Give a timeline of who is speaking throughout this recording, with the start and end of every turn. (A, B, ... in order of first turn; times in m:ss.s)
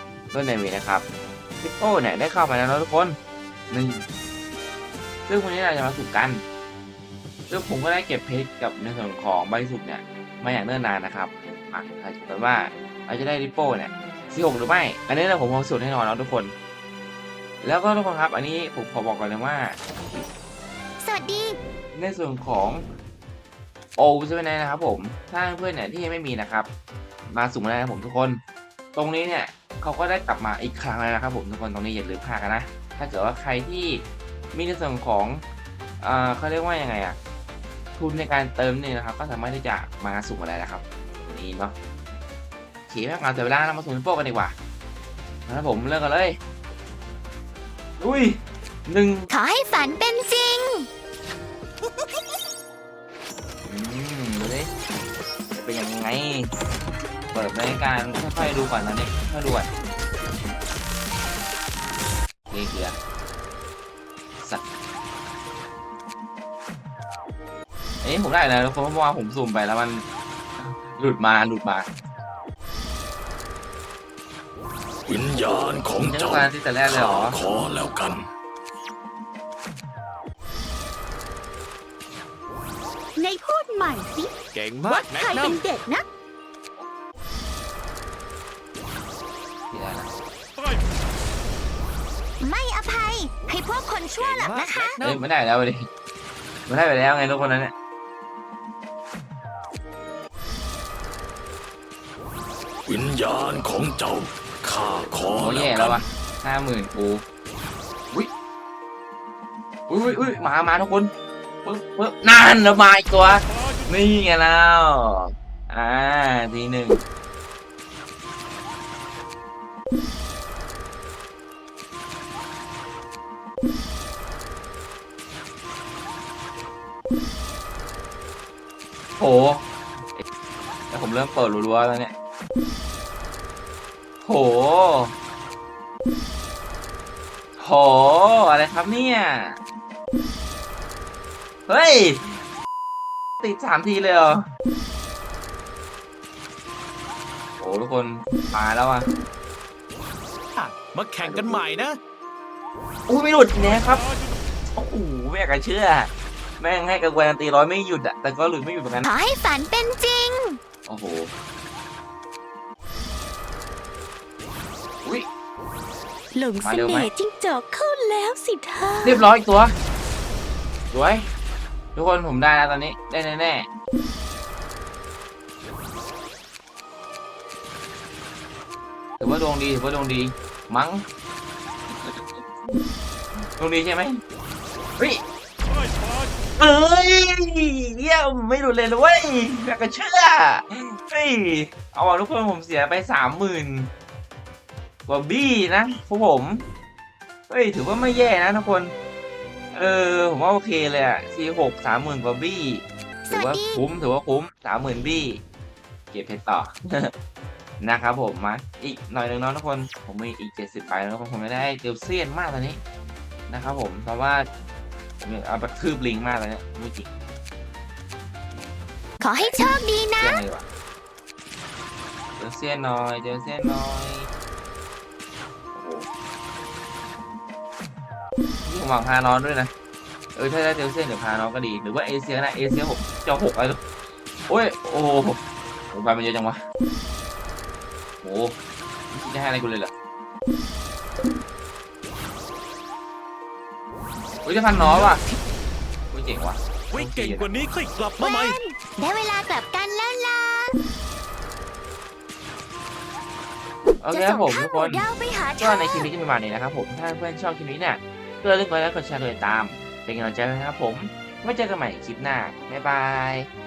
0:00.3-0:01.0 A
0:01.6-0:03.2 A
0:03.7-0:04.0 A
0:05.3-0:06.4 A
0:07.5-0:16.5 A
0:17.6-0:20.3 A
0:21.0-0:21.6 B
0:22.0-0:22.8 A
0:24.0-0:26.7 A
0:27.3-0:28.4 A
0:29.0-0:35.4 A
0:36.0-0:37.2 A
0:38.0-0:41.8 A
0:42.9-0:44.6 A
0:45.5-0:46.4 A
0:48.0-0:49.3 A
0:49.3-0:50.9 B
0:53.6-0:54.7 A
0:55.5-0:56.5 A
0:57.3-0:59.7 A
1:02.5-1:03.0 A
1:08.0-1:10.0 A
1:10.6-1:11.9 A
1:15.1-1:18.3 C
1:16.0-1:17.4 A
1:23.2-1:24.4 B
1:24.5-1:25.6 D
1:24.9-1:26.0 B
1:29.7-1:30.1 A
1:32.4-1:35.0 B
1:34.2-1:35.2 D
1:35.0-1:35.9 A
1:36.7-1:37.7 A
1:42.9-1:46.0 C
1:45.3-1:47.2 A
1:49.9-1:51.1 A
1:51.6-1:57.0 A
2:09.2-2:09.6 A
2:10.9-2:12.1 A
2:14.2-2:15.1 A
2:17.6-2:19.6 A
2:21.7-2:22.4 A
2:23.4-2:24.4 A
2:27.6-2:29.1 A
2:30.5-2:32.0 D
2:31.2-2:31.6 A
2:33.1-2:34.0 A
2:34.7-2:39.1 A
2:39.0-2:40.6 B
2:40.9-2:41.3 A
2:46.3-2:49.2 B
2:46.6-2:47.1 A
2:49.0-2:49.7 A
2:50.9-2:51.3 A
2:52.0-2:53.7 A
2:59.2-3:01.0 A
3:01.9-3:02.8 A
3:03.6-3:04.2 A
3:06.6-3:13.9 A
3:15.1-3:16.6 A
3:17.5-3:18.9 A
3:19.7-3:25.4 A
3:23.2-3:23.8 B
3:26.1-3:27.1 A
3:27.8-3:32.8 A
3:33.5-3:34.5 A
3:35.2-3:37.1 A
3:39.2-3:40.4 B
3:40.2-3:40.6 A
3:42.4-3:44.3 A
3:45.7-3:46.1 A
3:48.6-3:49.7 A
3:50.4-3:53.8 A
3:54.5-3:55.4 A
3:55.9-3:56.6 A
3:58.2-3:58.6 A
3:59.1-3:59.9 A
4:04.4-4:05.2 A
4:04.8-4:05.1 D
4:06.1-4:07.6 A
4:06.9-4:08.6 D
4:08.2-4:10.8 B
4:14.0-4:15.1 A
4:14.1-4:16.1 B
4:15.6-4:23.5 A